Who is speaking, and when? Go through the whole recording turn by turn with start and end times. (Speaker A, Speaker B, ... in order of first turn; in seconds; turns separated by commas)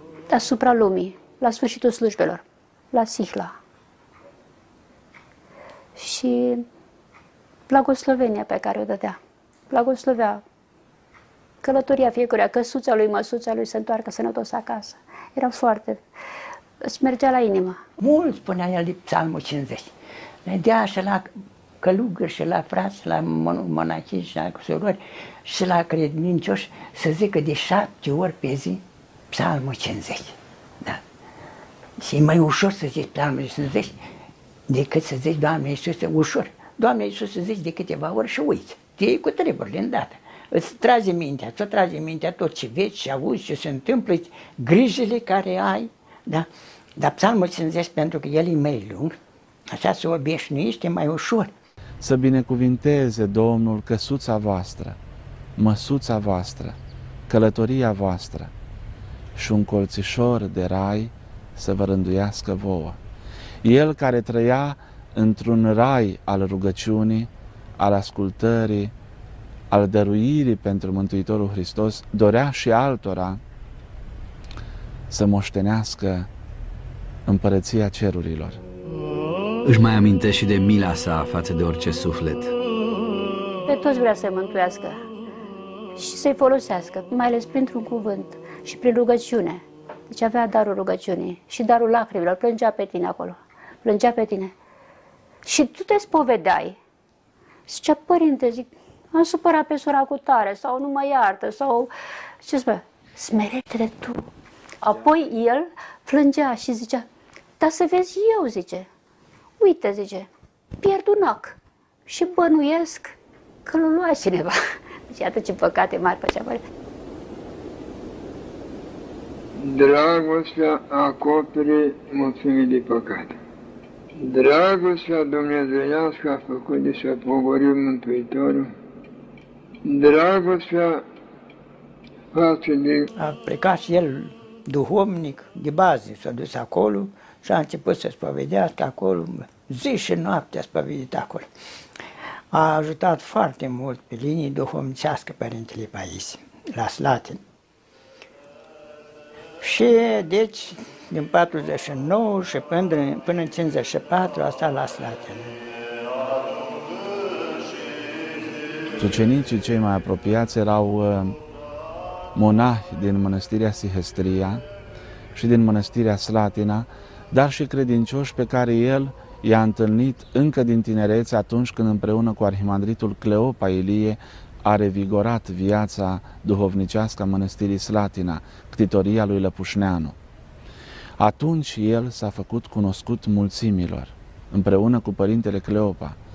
Speaker A: 0.3-3.5, Speaker A: 6.0-6.7, Speaker A: 7.7-9.2, Speaker A: 9.7-10.4, Speaker A: 11.6-16.0, Speaker A: 16.8-17.8, Speaker B: 18.0-19.9, Speaker B: 20.4-31.0, Speaker B: 32.0-34.0, Speaker B: 34.7-46.5, Speaker B: 47.0-49.2, Speaker B: 49.7-51.5, Speaker C: 52.0-55.0, Speaker C: 55.6-56.8, Speaker C: 57.3-58.5, Speaker C: 59.4-63.0, Speaker C: 63.6-68.9, Speaker C: 69.7-73.4, Speaker C: 75.1-76.3, Speaker C: 77.3-78.6, Speaker D: 79.6-82.5, Speaker A: 83.7-85.0, Speaker A: 86.0-94.5, Speaker A: 95.5-96.8, Speaker A: 97.7-101.9, Speaker A: 102.4-104.2, Speaker A: 104.8-107.1, Speaker A: 107.6-108.9, Speaker A: 109.6-110.3, Speaker A: 110.8-114.6, Speaker A: 115.1-116.6, Speaker E: 119.6-123.4, Speaker E: 124.2-128.7, Speaker E: 129.8-131.0, Speaker E: 132.3-133.1, Speaker B: 133.2-141.5, Speaker B: 142.5-147.4, Speaker B: 149.6-155.6, Speaker C: 159.0-161.4, Speaker C: 162.3-164.7, Speaker C: 165.3-180.2, Speaker C: 181.2-186.2